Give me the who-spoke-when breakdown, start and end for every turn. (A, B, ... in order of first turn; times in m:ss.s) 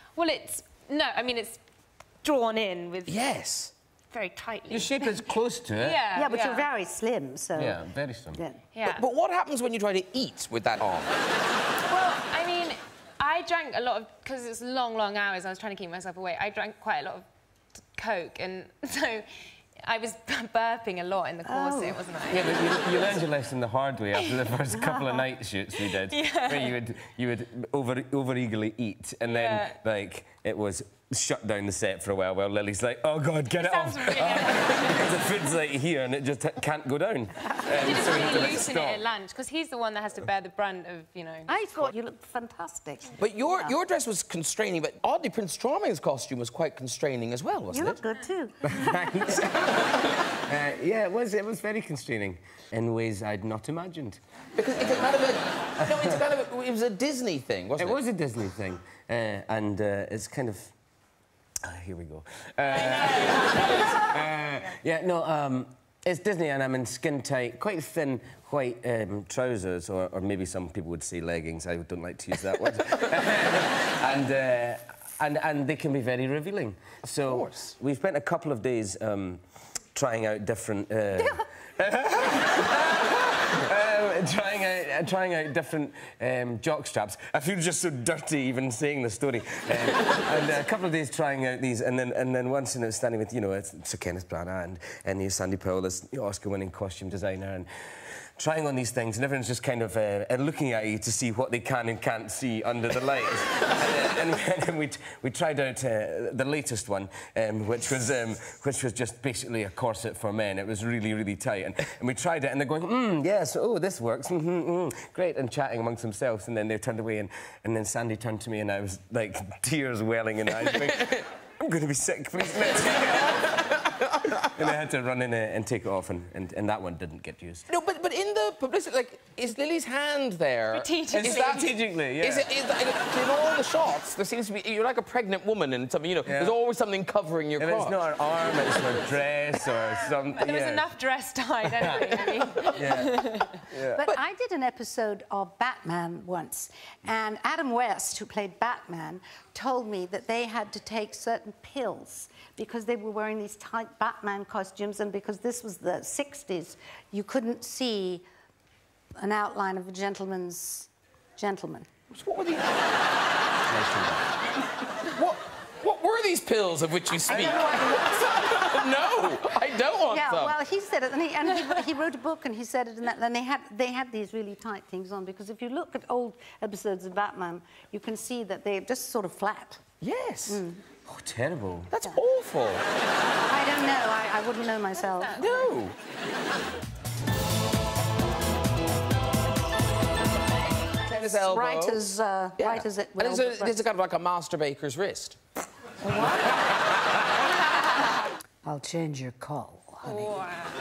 0:00.2-0:01.6 A
0:02.2-0:03.2 A
0:03.1-0:03.7 B
0:04.1-0:05.2 A
0:04.7-0:06.0 C
0:05.8-0:06.7 A
0:06.1-0:07.8 D
0:07.6-0:08.4 C
0:08.3-0:08.6 D
0:08.7-0:09.0 A
0:08.8-0:11.2 B
0:11.9-0:17.3 A
0:17.9-0:19.3 A
0:19.8-0:22.7 A
0:21.4-0:22.0 D
0:22.3-0:39.0 C
0:24.2-0:24.5 A
0:25.8-0:26.7 A
0:29.3-0:29.8 A
0:33.6-0:35.2 A
0:37.7-0:41.5 A
0:41.5-0:43.8 D
0:43.2-0:48.0 B
0:47.7-0:49.3 D
0:48.6-0:54.2 C
0:54.6-0:58.0 B
0:55.8-0:56.2 C
0:57.8-1:00.7 C
1:01.6-1:19.4 C
1:17.3-1:17.8 B
1:19.9-2:03.8 C
2:00.7-2:01.2 B
2:03.9-2:04.3 B
2:04.5-2:07.7 C
2:07.7-2:11.7 B
2:10.7-2:11.7 A
2:11.1-2:12.5 C
2:12.2-2:18.0 B
2:16.3-2:16.6 C
2:17.6-2:20.9 C
2:20.3-2:23.6 A
2:21.8-2:24.0 C
2:23.9-2:38.2 D
2:39.2-2:41.9 D
2:42.1-2:42.9 B
2:43.7-2:44.3 C
2:45.1-2:50.6 B
2:47.3-2:49.0 D
2:47.4-2:47.6 C
2:50.1-2:59.8 D
3:00.0-3:00.6 B
3:00.5-3:00.8 D
3:01.1-3:01.9 C
3:01.9-3:02.8 B
3:03.4-3:05.4 D
3:05.4-3:05.9 B
3:11.0-3:12.0 B
3:11.1-3:13.8 D
3:12.6-3:15.4 B
3:16.0-3:16.6 D
3:18.6-3:20.3 D